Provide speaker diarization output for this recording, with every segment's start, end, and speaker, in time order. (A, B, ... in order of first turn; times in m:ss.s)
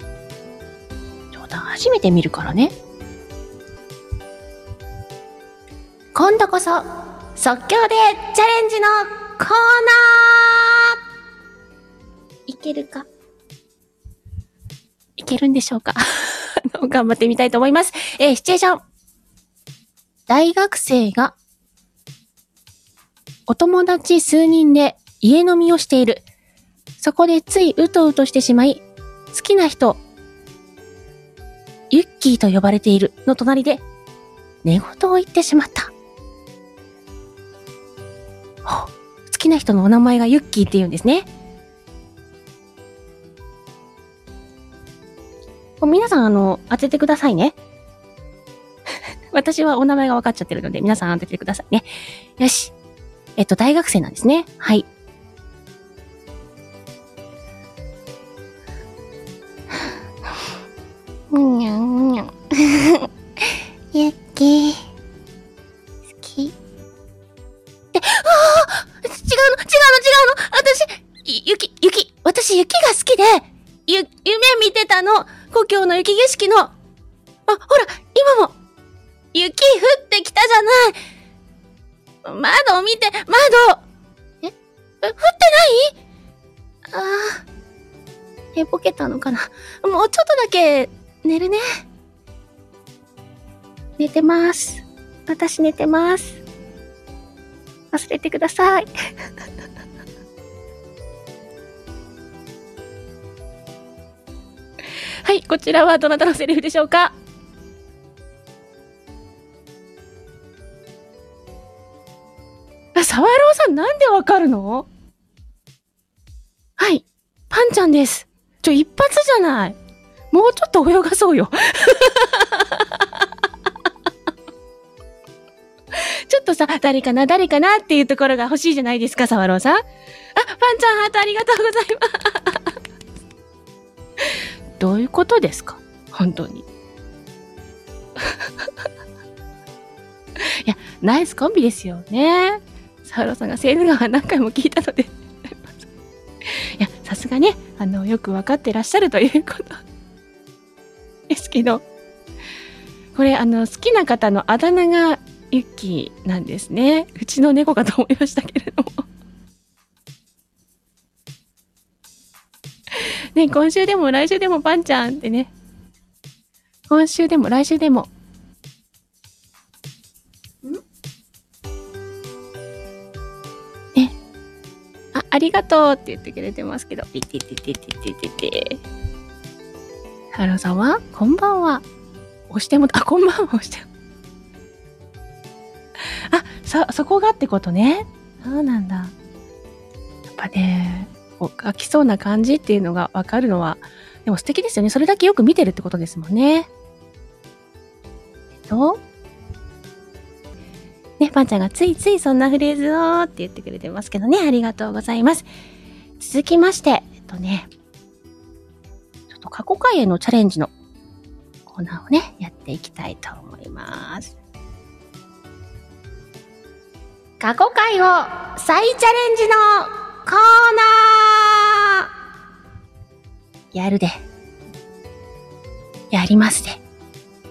0:01.3-0:02.7 A
0:06.1-0:10.9 A
0:12.5-0:13.1 A
0:15.2-0:18.8 A
0:20.3-0:21.3 A
0:23.5-0:26.2 A
0:27.0-0:30.0 A
0:31.9-0:33.8 A
0:34.6-0:35.9 A
0:38.6-0:41.3 A
0:45.8-0:47.5 A
0:49.3-0:51.9 A
0:52.4-0:52.7 A
0:53.4-0:54.8 A
1:01.3-1:04.8 A
1:06.2-1:06.5 A
1:07.9-1:16.7 A
1:17.5-1:18.5 A
1:19.3-1:21.0 A
1:22.2-1:23.8 A
1:24.4-1:25.9 A
1:26.9-1:27.4 A
1:28.5-1:31.6 A
1:34.0-1:36.4 A
1:37.9-1:38.9 A
1:45.2-1:47.1 A
1:52.9-1:54.9 A
1:56.8-1:59.8 A
2:00.3-2:03.0 A
2:05.9-2:09.8 A
2:10.3-2:12.7 A
2:14.2-2:16.6 A
2:18.2-2:18.7 A
2:20.4-2:25.8 A
2:26.4-2:29.8 A
2:31.3-2:31.8 A
2:33.1-2:39.0 A
2:42.9-2:45.5 A
2:46.9-2:48.1 A
2:55.1-2:58.8 A
3:00.3-3:01.8 A
3:02.5-3:03.9 A
3:06.0-3:09.1 A
3:10.4-3:16.7 A
3:18.6-3:19.0 A
3:21.2-3:25.5 A
3:26.2-3:27.7 A
3:29.3-3:30.7 A
3:31.7-3:34.3 A
3:37.4-3:42.0 A
3:43.7-3:44.2 A
3:46.1-3:46.8 A